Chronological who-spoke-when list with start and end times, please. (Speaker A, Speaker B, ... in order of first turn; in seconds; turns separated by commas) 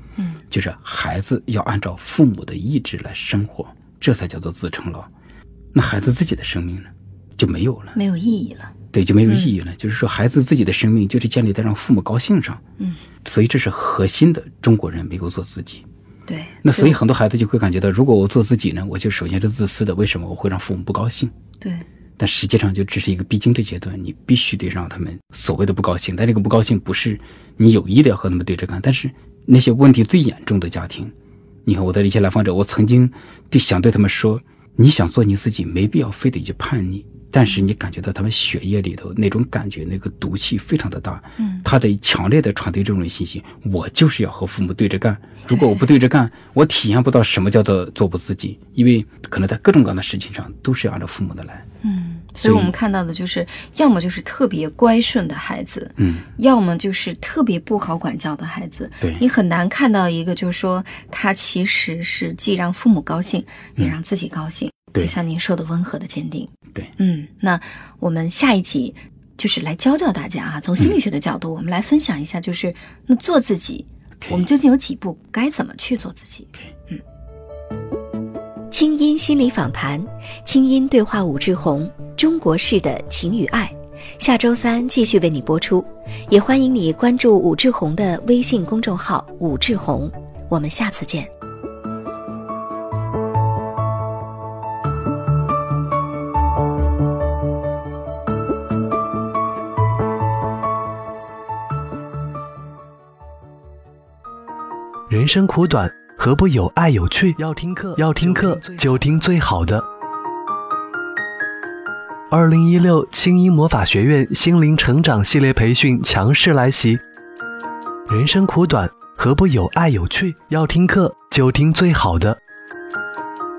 Speaker A: 0.2-0.4, Speaker B: 0.5-5.1, Speaker B: 5.7-8.0, Speaker A: 7.9-9.5, Speaker B: 8.9-12.6, Speaker B: 13.2-15.8, Speaker A: 16.3-17.0, Speaker B: 16.6-21.3, Speaker A: 21.6-21.9, Speaker B: 22.2-31.1, Speaker B: 31.6-51.6, Speaker A: 41.4-41.7, Speaker A: 45.5-45.8, Speaker A: 51.8-77.0, Speaker B: 52.4-52.7, Speaker B: 56.0-56.3, Speaker B: 74.2-74.5, Speaker C: 78.7-91.3, Speaker D: 105.1-109.8, Speaker D: 112.3-117.0, Speaker D: 118.1-122.4